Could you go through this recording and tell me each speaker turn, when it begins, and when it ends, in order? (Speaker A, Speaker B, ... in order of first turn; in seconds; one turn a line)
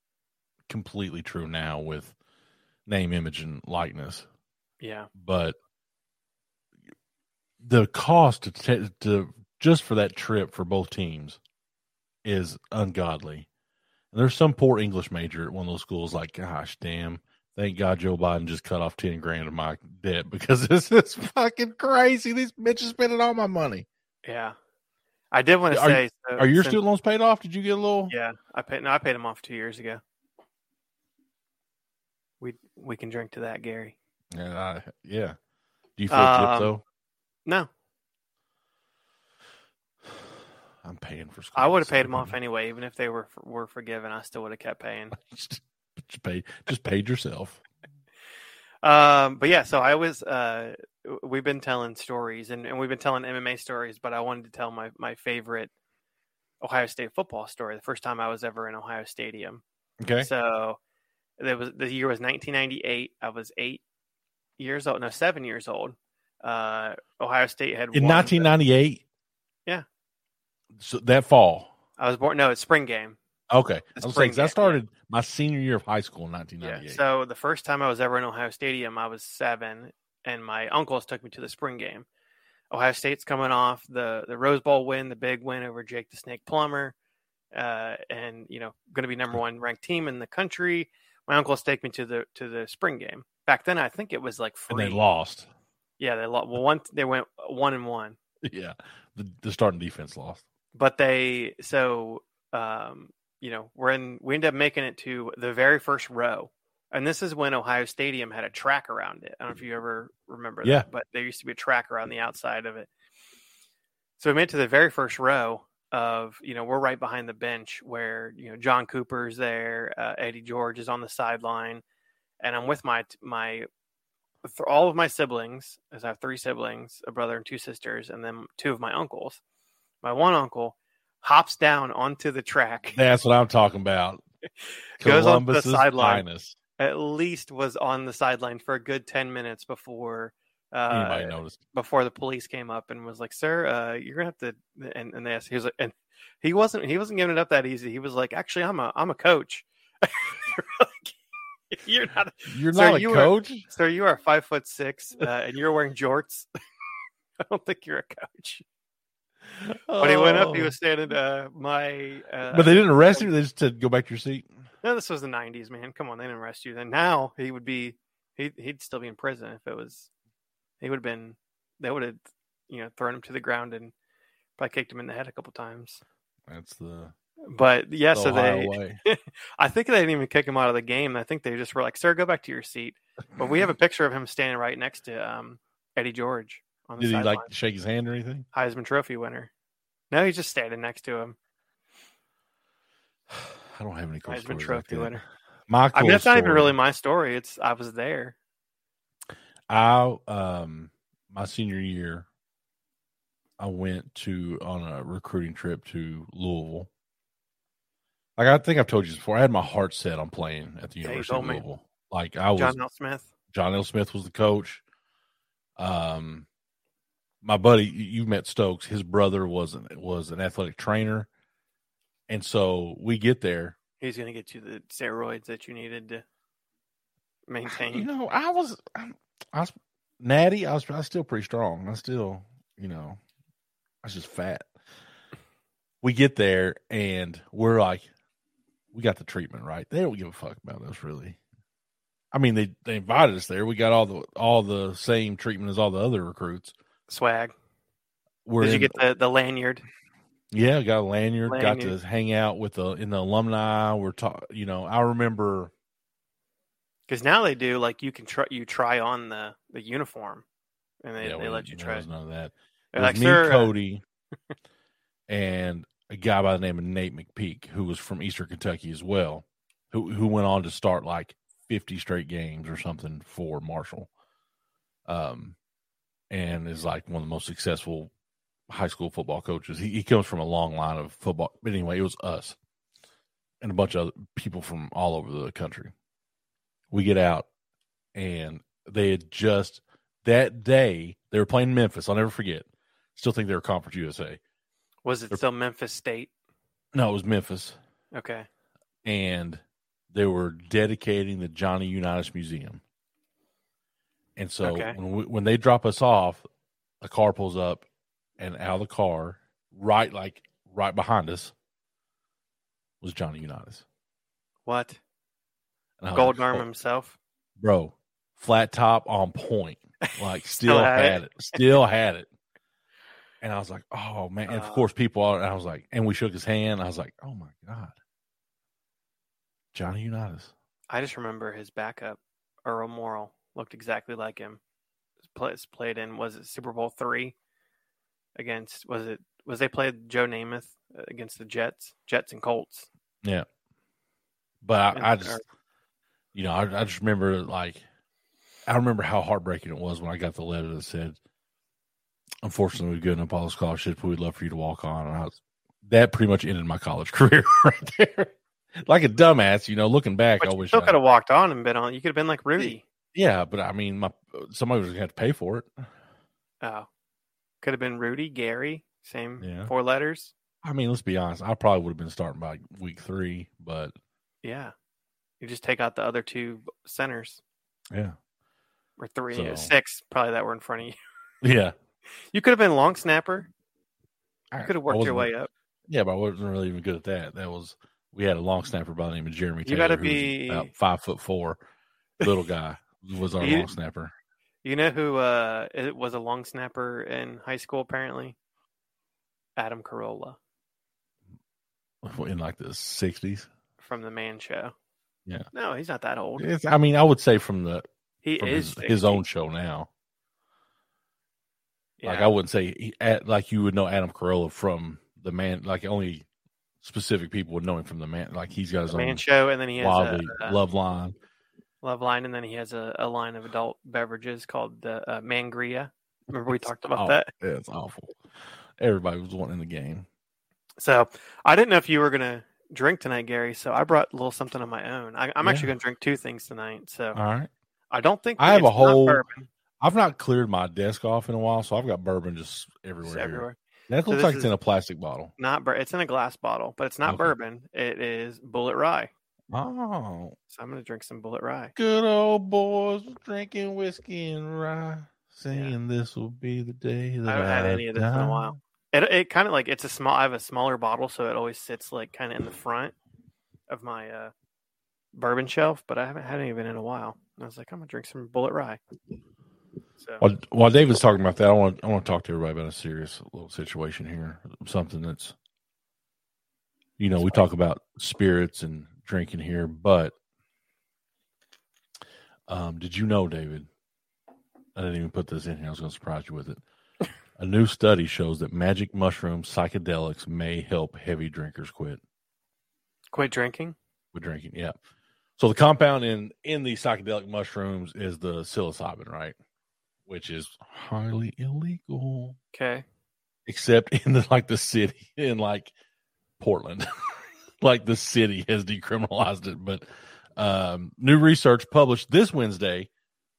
Speaker A: 0.7-2.2
Speaker A: 2.9-4.3
Speaker B: 4.8-5.1
Speaker A: 5.2-5.6
Speaker A: 7.6-11.4
Speaker A: 12.2-13.5
Speaker A: 14.1-23.9
Speaker B: 24.2-24.6
Speaker B: 25.3-26.8
Speaker A: 25.7-28.1
Speaker B: 28.1-30.0
Speaker B: 32.4-34.0
Speaker A: 34.3-35.4
Speaker A: 36.0-36.8
Speaker B: 36.1-36.8
Speaker A: 40.8-42.4
Speaker B: 41.6-45.1
Speaker A: 45.1-47.6
Speaker B: 48.8-55.7
Speaker B: 56.6-59.6
Speaker A: 60.0-60.3
Speaker B: 60.2-60.8
Speaker B: 61.4-63.8
Speaker B: 64.6-68.5
Speaker A: 67.9-69.0
Speaker A: 70.8-71.7
Speaker B: 72.0-73.2
Speaker A: 73.5-77.0
Speaker B: 74.0-74.8
Speaker B: 76.6-82.1
Speaker B: 82.7-87.0
Speaker B: 87.5-95.0
Speaker A: 94.7-95.5
Speaker B: 96.0-98.2
Speaker A: 98.4-100.4
Speaker B: 100.8-112.9
Speaker B: 114.2-121.8
Speaker B: 122.4-123.7
Speaker B: 124.4-129.4
Speaker B: 130.0-133.0
Speaker A: 132.9-134.2
Speaker B: 135.0-136.3
Speaker A: 135.0-136.6
Speaker B: 136.8-151.2
Speaker A: 140.9-141.6
Speaker B: 151.7-156.5
Speaker A: 152.5-153.7
Speaker B: 157.4-158.7
Speaker A: 159.6-160.8
Speaker B: 160.0-163.3
Speaker A: 162.5-164.5
Speaker B: 164.8-170.1
Speaker B: 170.8-173.9
Speaker B: 174.6-176.0
Speaker A: 176.5-177.1
Speaker B: 177.5-187.5
Speaker A: 178.1-179.0
Speaker A: 187.0-188.5
Speaker B: 188.5-189.5
Speaker B: 190.1-191.4
Speaker A: 193.4-195.2
Speaker B: 194.3-195.2
Speaker A: 195.7-196.7
Speaker B: 195.9-198.4
Speaker A: 199.7-202.3
Speaker A: 203.6-206.9
Speaker A: 208.4-212.8
Speaker B: 211.0-211.6
Speaker B: 212.6-213.3
Speaker A: 213.5-214.8
Speaker A: 215.8-216.5
Speaker A: 217.4-221.3
Speaker A: 222.3-223.8
Speaker B: 224.0-226.2
Speaker B: 227.5-228.1
Speaker A: 227.9-233.2
Speaker A: 234.0-234.7
Speaker A: 236.0-238.1
Speaker A: 238.9-241.4
Speaker A: 242.3-246.7
Speaker B: 247.1-247.5
Speaker A: 248.4-249.0
Speaker B: 248.6-249.8
Speaker A: 250.5-255.7
Speaker B: 251.5-251.9
Speaker B: 257.1-260.4
Speaker B: 261.0-262.1
Speaker A: 261.2-264.0
Speaker B: 262.9-263.8
Speaker A: 265.3-274.1
Speaker A: 275.1-275.6
Speaker A: 276.3-278.1
Speaker A: 278.7-282.6
Speaker A: 283.6-285.9
Speaker A: 286.9-287.5
Speaker A: 288.1-294.4
Speaker B: 295.1-296.3
Speaker A: 296.9-297.8
Speaker B: 298.1-298.5
Speaker A: 299.0-302.8
Speaker A: 304.4-306.4
Speaker B: 304.6-305.0
Speaker A: 307.0-307.9
Speaker A: 308.4-311.5
Speaker A: 313.0-313.9
Speaker B: 314.7-315.0
Speaker A: 316.0-316.7
Speaker B: 316.1-317.2
Speaker A: 317.6-322.3
Speaker B: 320.6-321.8
Speaker A: 323.4-327.9
Speaker B: 324.5-324.9
Speaker A: 329.7-330.5
Speaker B: 330.9-334.6
Speaker B: 335.3-337.4
Speaker B: 338.4-342.9
Speaker A: 344.6-345.4
Speaker B: 344.9-345.4
Speaker A: 346.3-347.8
Speaker A: 348.7-351.2
Speaker A: 352.4-361.0
Speaker B: 360.4-362.8
Speaker A: 362.6-365.8
Speaker B: 366.6-366.9
Speaker B: 367.6-370.3
Speaker A: 369.4-369.7
Speaker A: 370.6-373.9
Speaker B: 374.4-374.7
Speaker B: 375.4-377.4
Speaker B: 379.0-381.0
Speaker A: 379.3-379.7
Speaker A: 381.4-381.8
Speaker B: 382.3-383.5
Speaker A: 384.5-385.3
Speaker B: 384.6-385.5
Speaker A: 385.9-391.6
Speaker B: 389.6-390.7
Speaker A: 392.2-394.1
Speaker B: 393.4-393.7
Speaker B: 394.6-398.4
Speaker B: 399.6-400.4
Speaker A: 402.0-403.5
Speaker B: 403.8-404.7
Speaker B: 405.5-406.5
Speaker A: 406.4-407.9
Speaker B: 408.2-409.2
Speaker A: 408.4-409.9
Speaker B: 412.0-412.3
Speaker A: 412.0-416.3
Speaker A: 416.8-419.2
Speaker B: 418.9-420.6
Speaker A: 419.8-421.1
Speaker B: 421.8-427.3
Speaker A: 426.9-428.2
Speaker A: 428.8-430.1
Speaker B: 430.8-437.2
Speaker A: 435.4-435.7
Speaker A: 437.1-437.5
Speaker B: 437.9-439.5
Speaker A: 438.4-439.2
Speaker A: 439.8-445.3
Speaker B: 443.0-443.6
Speaker B: 444.1-444.5
Speaker B: 445.4-449.1
Speaker A: 447.1-447.3
Speaker A: 449.5-450.4
Speaker B: 450.5-451.7
Speaker A: 451.8-458.6
Speaker B: 457.3-462.9
Speaker B: 463.7-464.3
Speaker B: 465.1-468.8
Speaker B: 470.0-470.2
Speaker A: 470.2-475.4
Speaker A: 477.0-480.1
Speaker A: 482.5-483.7
Speaker A: 484.8-486.6
Speaker A: 487.4-492.0
Speaker B: 493.1-493.8
Speaker A: 494.1-494.8
Speaker A: 495.4-499.4
Speaker A: 500.1-502.4
Speaker B: 502.5-502.9
Speaker A: 503.5-505.7
Speaker A: 506.4-506.9
Speaker A: 507.6-509.8
Speaker A: 510.4-512.9